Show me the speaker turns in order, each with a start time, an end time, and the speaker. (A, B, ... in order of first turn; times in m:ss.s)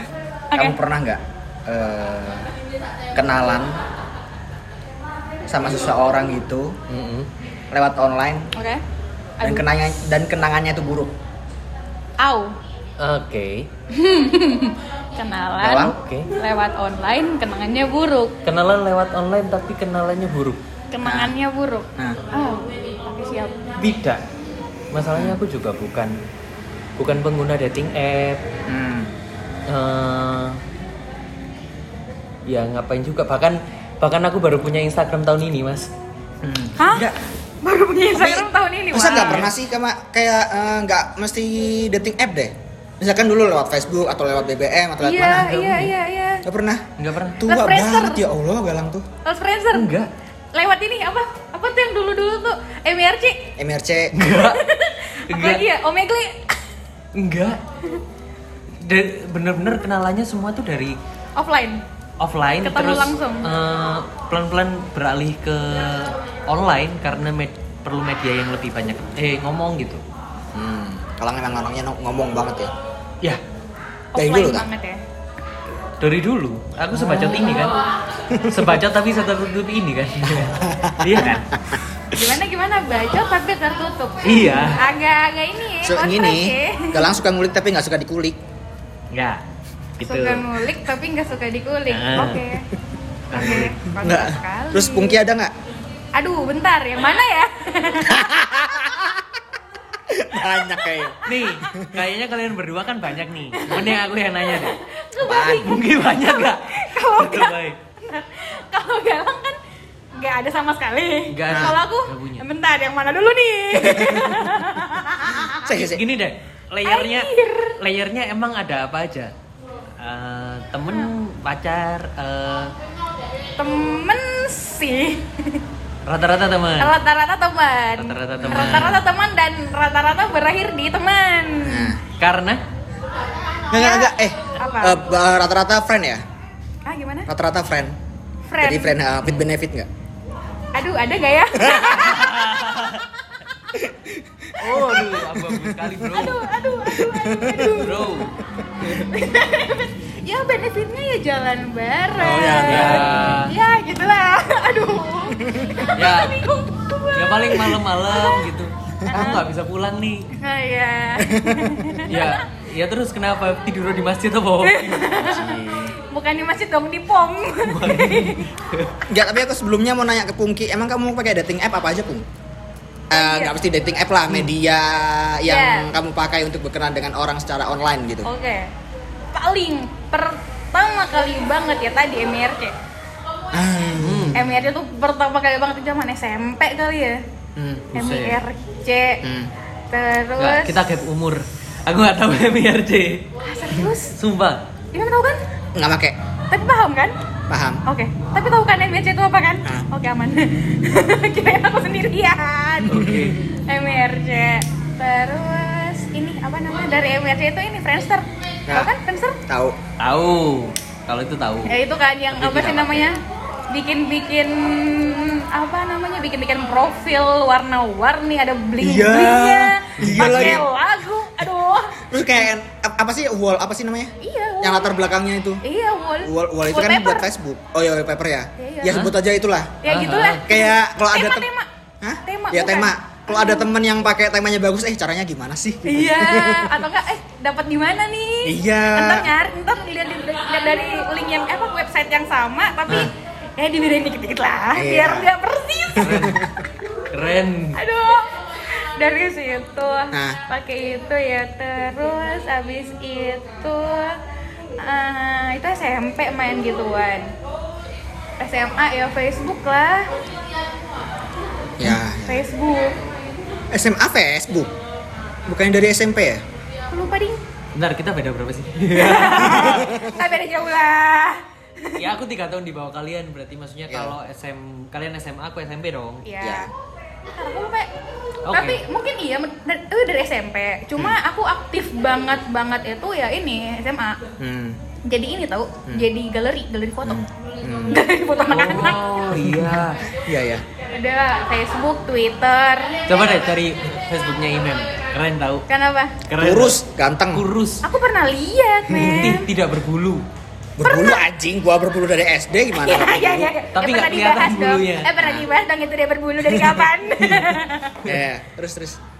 0:00.5-0:00.8 A
0:00.5-0:02.5 B
0:03.1-0:03.8 B
0:05.5-0:06.8 B
0:06.9-0:07.3 C
0:07.7-0:08.5 B
0:08.5-0:08.8 A
0:09.4-0:09.7 A
0:09.4-0:11.1 B
0:12.2-0:12.5 A
0:13.0-0:13.7 C
0:13.9-0:18.3 A
0:15.6-0:16.0 B
0:15.8-0:16.3 C
0:18.4-0:20.6 C
0:20.9-0:23.6 A
0:21.0-0:21.3 B
0:23.8-0:24.2 C
0:24.9-0:26.1 C
0:25.1-0:25.4 B
0:27.0-0:28.4 C
0:28.7-0:29.1 B
0:29.7-0:30.6 C
0:32.4-0:35.9 C
0:36.4-0:37.2 B
0:36.8-0:37.1 A
0:37.6-0:39.5 A
0:38.1-0:45.5 B
0:45.0-0:46.4 A
0:45.3-0:45.9 C
0:46.4-0:49.0 B
0:47.0-0:47.4 C
0:47.4-0:48.3 A
0:49.2-0:49.9 A
0:49.7-0:50.1 C
0:50.5-0:53.5 A
0:53.6-0:54.3 B
0:54.1-0:54.6 C
0:54.3-0:56.5 A
0:55.3-0:55.6 C
0:57.1-0:57.6 C
0:58.8-1:01.0 C
1:01.4-1:01.8 A
1:02.2-1:10.0 C
1:02.6-1:03.5 A
1:10.5-1:12.7 B
1:14.1-1:15.0 A
1:14.2-1:14.6 B
1:16.0-1:17.8 C
1:16.9-1:17.4 B
1:18.3-1:18.8 B
1:18.5-1:21.5 C
1:20.2-1:21.8 B
1:22.1-1:27.1 A
1:24.2-1:24.8 C
1:25.8-1:28.4 B
1:29.1-1:29.4 C
1:30.0-1:30.5 C
1:30.0-1:32.7 A
1:31.9-1:32.4 C
1:33.3-1:33.7 C
1:33.3-1:35.5 B
1:33.3-1:35.2 A
1:36.2-1:38.6 A
1:38.1-1:39.3 B
1:40.0-1:42.0 B
1:41.2-1:41.7 A
1:41.2-1:44.8 C
1:43.5-1:49.6 A
1:45.2-1:45.7 B
1:45.4-1:47.8 C
1:50.2-1:55.7 A
1:51.3-1:52.4 C
1:51.5-1:51.8 B
1:53.9-1:54.3 B
1:55.6-1:56.0 B
1:55.7-1:59.3 C
1:56.8-1:57.8 A
2:00.0-2:02.7 C
2:03.6-2:05.6 A
2:06.0-2:06.9 C
2:06.8-2:12.0 A
2:08.0-2:09.0 C
2:08.4-2:09.0 B
2:11.6-2:12.0 B
2:12.1-2:12.6 C
2:13.7-2:16.2 B
2:13.7-2:15.0 A
2:16.8-2:17.3 A
2:17.3-2:18.0 B
2:18.5-2:19.0 A
2:18.6-2:19.9 B
2:20.7-2:22.9 A
2:21.7-2:23.0 C
2:23.7-2:25.9 B
2:24.6-2:26.5 C
2:26.0-2:28.1 A
2:26.9-2:27.7 B
2:27.6-2:28.3 C
2:28.8-2:38.5 A
2:32.2-2:33.3 B
2:32.6-2:33.5 C
2:35.3-2:35.9 B
2:35.9-2:36.5 C
2:37.1-2:40.3 C
2:39.1-2:39.4 A
2:40.4-2:42.4 A
2:41.2-2:42.1 B
2:42.1-2:45.6 C
2:44.6-2:48.5 A
2:45.2-2:45.9 B
2:47.6-2:48.9 C
2:49.1-2:52.2 B
2:53.1-2:58.3 B
2:53.1-2:53.5 A
2:55.4-2:55.9 A
2:58.2-2:58.7 A
2:59.3-3:02.7 A
3:03.5-3:04.6 B
3:04.0-3:04.5 C
3:04.3-3:07.2 A
3:07.6-3:07.9 B
3:07.9-3:08.4 C
3:07.9-3:09.2 A
3:09.2-3:09.5 B
3:09.9-3:10.8 A
3:10.4-3:13.2 C
3:13.4-3:14.2 A
3:14.1-3:14.6 C
3:14.9-3:15.4 A
3:15.7-3:16.2 B
3:16.5-3:17.1 A
3:17.5-3:17.8 B
3:17.8-3:29.4 A
3:22.9-3:23.4 C
3:23.0-3:23.3 B
3:29.5-3:29.8 B
3:30.0-3:31.8 C
3:31.7-3:33.2 A
3:32.3-3:33.1 C
3:33.7-3:42.0 A
3:38.8-3:40.7 B
3:40.0-3:40.6 C
3:42.0-3:45.6 B
3:44.2-3:45.1 A
3:45.6-3:47.3 A
3:46.2-3:49.8 B
3:48.6-3:49.1 A
3:49.8-3:51.7 A
3:49.9-3:50.4 C
3:50.5-3:51.5 B
3:52.0-3:56.8 B
3:52.2-3:53.6 A
3:55.8-4:06.3 A
3:58.4-3:59.3 B
4:04.7-4:05.3 B
4:05.9-4:06.7 B
4:06.0-4:06.4 C
4:07.1-4:07.8 C
4:07.7-4:14.2 A
4:10.1-4:10.4 B
4:14.8-4:17.3 A
4:18.4-4:20.1 A
4:21.8-4:22.4 B
4:21.8-4:23.0 A
4:23.7-4:24.7 B
4:25.5-4:26.4 B
4:26.9-4:27.4 A
4:27.7-4:29.9 C
4:28.9-4:32.0 A
4:29.5-4:30.2 B
4:32.0-4:36.2 C
4:33.9-4:34.1 B
4:36.2-4:36.7 A
4:36.4-4:36.7 B
4:37.3-4:37.9 A
4:38.5-4:38.8 C
4:38.5-4:44.2 A
4:44.4-4:44.8 B
4:45.1-4:47.2 A
4:47.0-4:48.0 B
4:47.9-4:49.0 A
4:48.5-4:50.0 C
4:49.3-4:50.6 B
4:50.9-4:53.0 A
4:53.1-4:55.6 C
4:55.7-4:56.2 A
4:56.2-4:56.8 C
4:56.4-4:57.4 B
4:57.3-4:57.8 C
4:57.8-4:59.5 A
4:58.9-5:00.2 C
5:00.8-5:03.5 B
5:00.8-5:01.2 A
5:02.7-5:08.0 A
5:03.8-5:05.1 C
5:05.2-5:05.5 B
5:06.4-5:06.8 B
5:08.0-5:09.0 B